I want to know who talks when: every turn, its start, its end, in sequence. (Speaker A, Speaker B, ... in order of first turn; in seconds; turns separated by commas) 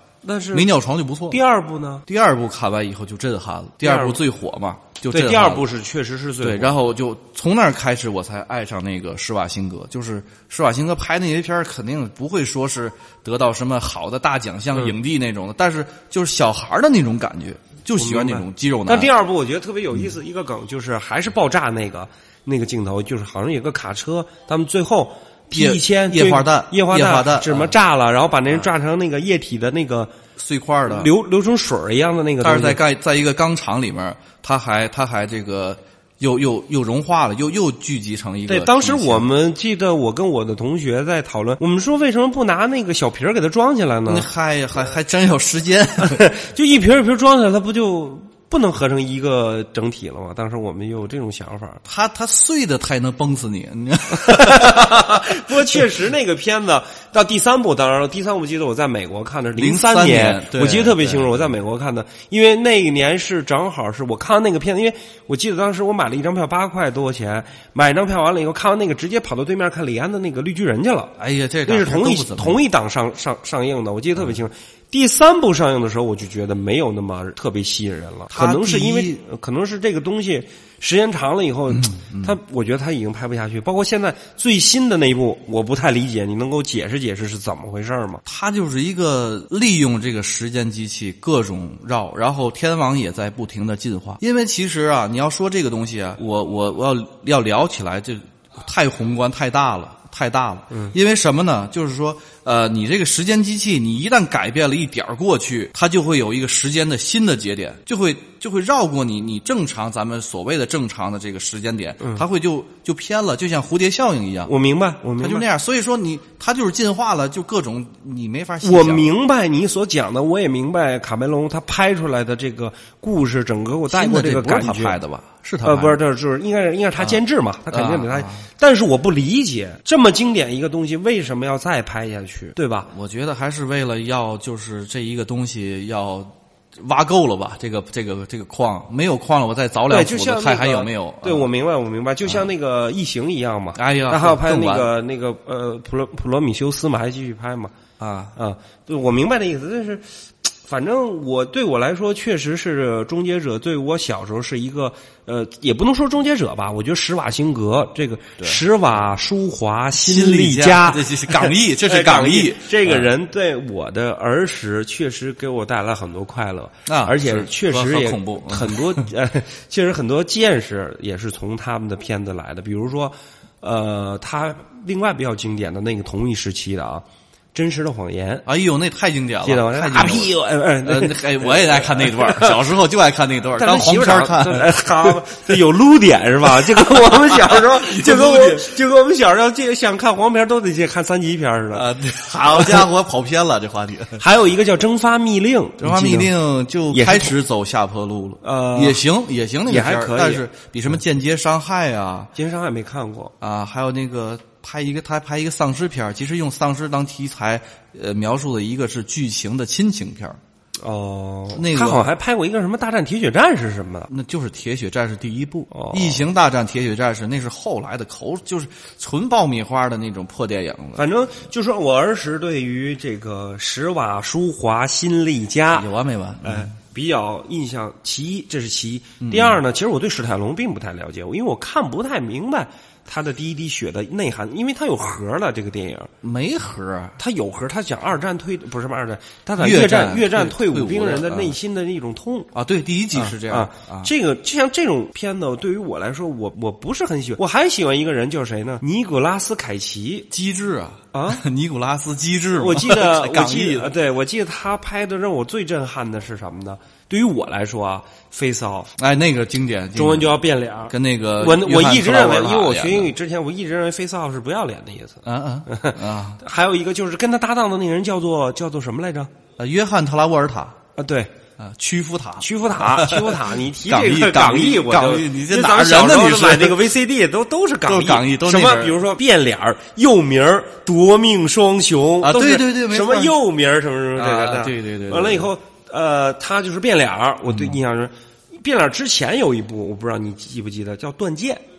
Speaker A: 0.2-0.7, Speaker B: 0.5-1.4, Speaker A: 1.3-2.0, Speaker B: 2.1-5.7, Speaker A: 3.8-4.2, Speaker A: 5.1-6.7, Speaker B: 6.4-19.1, Speaker A: 18.0-30.1, Speaker B: 25.5-27.7, Speaker B: 30.4-31.1, Speaker A: 30.9-32.8, Speaker B: 32.4-39.3, Speaker A: 38.5-44.3, Speaker B: 44.1-46.3, Speaker A: 46.0-51.8, Speaker B: 51.8-55.8, Speaker A: 54.1-71.1, Speaker B: 59.6-61.5, Speaker B: 71.2-72.6, Speaker A: 71.7-88.2, Speaker B: 78.3-79.2, Speaker B: 81.7-82.4, Speaker B: 88.2-114.5, Speaker A: 114.5-115.5, Speaker B: 115.2-119.1, Speaker A: 118.6-125.0, Speaker B: 123.9-126.0, Speaker A: 125.6-132.9, Speaker B: 127.0-128.4, Speaker B: 132.9-141.5, Speaker A: 139.9-147.8, Speaker B: 143.7-144.9, Speaker B: 148.0-148.3, Speaker A: 148.3-178.4, Speaker B: 159.9-163.1, Speaker B: 166.8-169.0, Speaker B: 178.4-185.5, Speaker A: 179.4-182.6, Speaker A: 183.6-191.9, Speaker B: 186.7-188.7, Speaker B: 191.7-194.2, Speaker A: 194.2-196.3, Speaker B: 195.8-202.3, Speaker A: 196.9-197.3, Speaker A: 198.4-199.0, Speaker A: 199.7-200.5, Speaker A: 202.3-203.3, Speaker B: 203.4-210.4, Speaker A: 210.8-214.1, Speaker B: 211.5-212.1, Speaker B: 214.1-221.1, Speaker A: 215.7-216.2, Speaker A: 220.9-225.9, Speaker B: 225.7-226.7, Speaker A: 226.4-236.1, Speaker B: 229.2-229.6, Speaker B: 236.2-237.2, Speaker A: 237.2-242.5, Speaker B: 239.6-241.5, Speaker B: 242.5-244.1, Speaker A: 243.1-250.3, Speaker B: 250.3-253.9, Speaker A: 251.1-251.4, Speaker A: 252.5-258.9, Speaker B: 259.0-263.1, Speaker A: 259.9-269.3, Speaker B: 265.2-266.4, Speaker B: 269.6-270.8, Speaker A: 270.9-271.3, Speaker B: 271.6-276.9, Speaker A: 272.4-291.6, Speaker B: 277.9-279.0, Speaker B: 282.2-283.4, Speaker B: 284.1-285.5, Speaker B: 287.5-287.8